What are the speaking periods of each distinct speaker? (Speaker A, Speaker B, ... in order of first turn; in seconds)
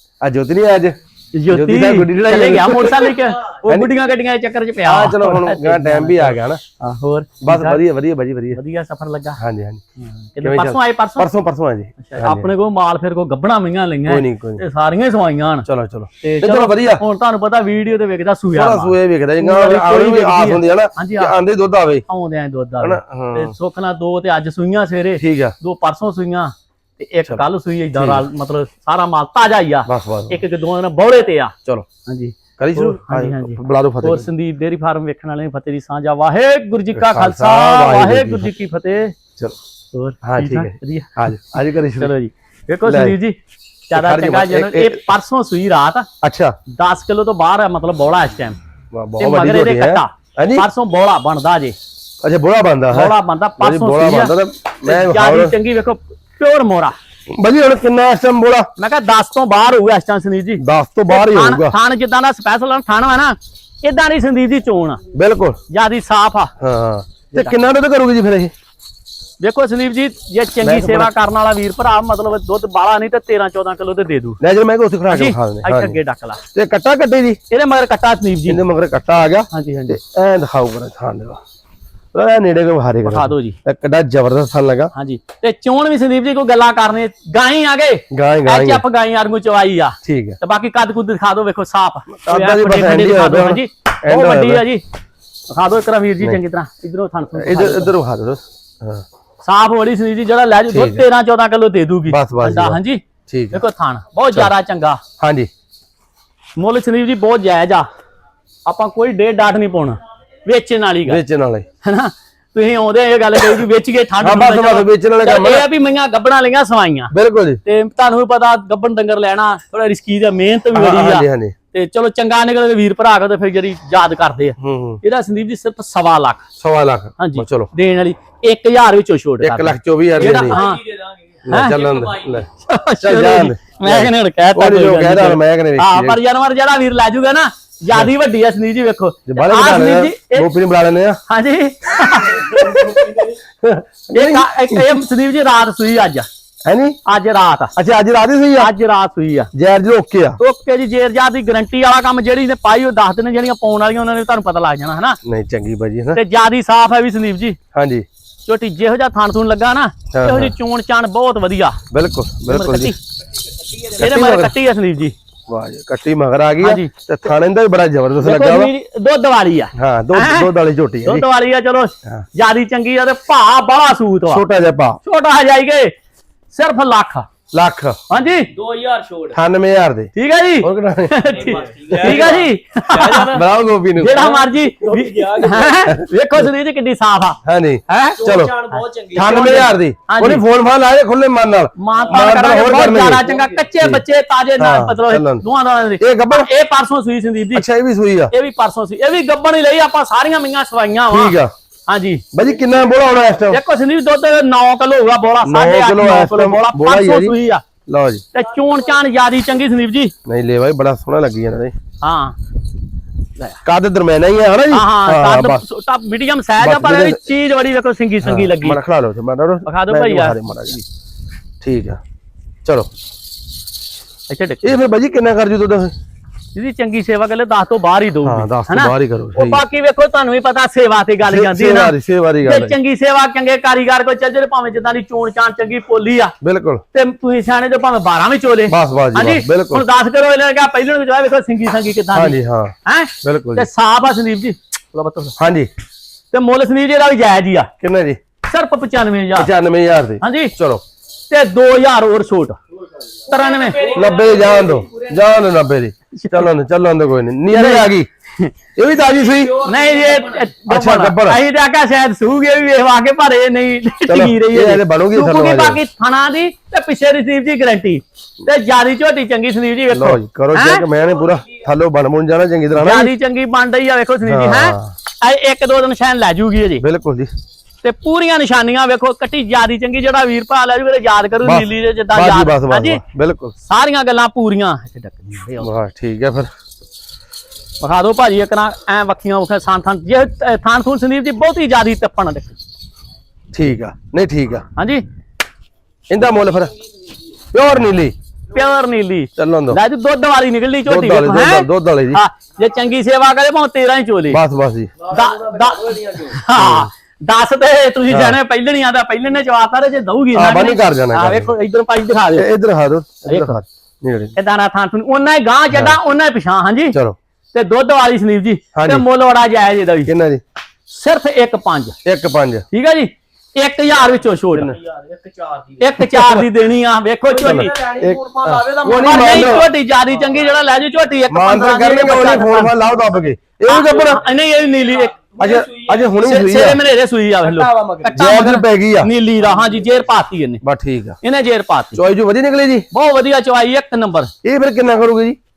Speaker A: 0.2-1.0, 1.5-3.9, 4.8-6.6, 7.4-8.6, 9.4-9.8, 10.4-12.5, 14.1-14.6, 15.7-17.0, 18.5-22.0, 22.8-23.5, 25.2-25.5, 27.2-28.2, 29.9-30.4, 32.6-34.3, 36.9-38.5, 40.2-42.1, 42.8-43.2, 43.9-45.0, 46.2-46.5, 48.9-50.7, 52.2-55.5, 57.3-58.7, 60.6-61.8, 65.1-65.6, 66.6-68.5, 70.6-71.1, 74.4-76.0, 76.5-77.4, 78.5-81.4, 82.1-84.9, 88.1-88.8, 90.0-90.4, 92.1-94.7, 97.3-99.0, 100.7-101.0, 102.1-103.6, 105.2-105.5, 111.0-111.7, 114.2-115.7, 117.1-117.6, 120.7-121.5, 124.6-125.0, 126.6-127.7, 129.4-130.6, 131.4-132.5, 133.0-136.2, 139.3-141.2, 143.4-144.9, 146.6-147.0, 147.8-148.7, 149.5-150.4, 155.2-156.2, 157.7-158.1, 160.1-160.5, 161.9-162.9, 164.0-164.5, 165.5-168.7, 169.7-171.2, 174.3-175.0, 177.5-178.0, 179.3-181.2, 181.9-182.2, 183.2-184.3, 187.4-188.6, 189.1-193.2, 194.6-195.4, 196.0-196.5, 197.5-198.3, 201.1-201.5, 202.3-203.6, 205.4-208.2, 210.2-211.7, 213.6-215.6, 216.6-217.2, 218.2-220.8, 221.6-222.0, 222.6-222.9, 224.6-225.9, 228.2-229.6, 231.2-232.8, 236.4-236.8, 238.7-239.8, 242.1-243.7, 245.4-245.7, 247.8-248.2, 249.3-250.8, 253.9-258.1, 258.8-259.6, 260.7-261.4, 264.1-265.8, 269.9-273.1, 274.2-274.9, 276.8-277.3, 281.4-283.5, 285.6-286.5, 293.5-294.6, 296.1-296.7, 297.5-298.1, 299.4-299.8, 300.9-302.2, 304.3-304.9, 306.5-306.9, 308.1-308.4, 310.3-311.5, 312.3-314.3, 315.7-316.0, 316.9-317.2, 318.7-319.1, 320.1-320.4, 322.0-322.6, 326.0-326.5, 327.4-329.7, 331.3-334.2, 335.4-336.8, 338.1-339.1, 340.6-341.2, 341.9-342.9, 344.4-345.4
Speaker B: 1.3-7.8, 8.5-9.4, 10.0-11.3, 12.0-15.7, 16.2-21.4, 22.1-31.5, 32.0-39.1, 39.9-41.4, 41.9-43.4, 43.9-46.1, 46.7-48.6, 49.2-51.8, 52.9-56.9, 58.8-65.0, 65.7-66.5, 69.4-74.4, 75.1-76.4, 77.5-78.6, 79.5-80.0, 83.0-83.6, 84.9-94.8, 95.5-97.9, 99.4-105.0, 106.6-107.9, 108.7-111.2, 111.8-117.1, 117.6-126.5, 127.2-130.8, 131.5-131.8, 132.6-140.5, 141.3-143.2, 144.1-146.3, 147.0-147.7, 148.6-149.5, 150.4-155.2, 156.1-157.6, 158.4-161.8, 162.5-163.0, 163.8-165.1, 166.6-166.9, 168.2-174.4, 175.0-175.9, 176.5-177.3, 178.1-178.5, 180.1-183.4, 183.9-187.4, 187.9-188.2, 189.2-190.4, 191.8-197.7, 198.3-202.2, 203.5-207.6, 208.3-210.1, 212.0-212.4, 214.7-218.8, 219.6-220.8, 224.3-224.8, 226.5-236.3, 236.9-245.4, 246.3-247.7, 248.4-249.5, 250.2-250.5, 251.3-252.6, 253.3-254.0, 256.1-256.5, 257.5-258.5, 259.6-270.9, 272.8-276.8, 277.8-283.0, 283.6-285.7, 287.8-292.6, 294.8-295.0, 298.5-304.4, 305.1-312.5, 313.2-313.6, 314.3-317.0, 317.5-320.1, 320.9-321.9, 322.7-324.8, 325.8-327.8, 328.9-332.7, 333.6-335.2, 336.2-340.6, 341.2-342.0, 342.9-344.3
Speaker C: 130.2-132.4, 142.8-143.2, 178.5-179.4, 181.3-183.4, 184.1-185.9, 188.2-189.7, 193.1-193.6, 253.3-255.2, 259.2-260.4, 305.0-306.4, 324.6-325.9, 327.3-329.6, 334.9-336.1, 337.4-338.2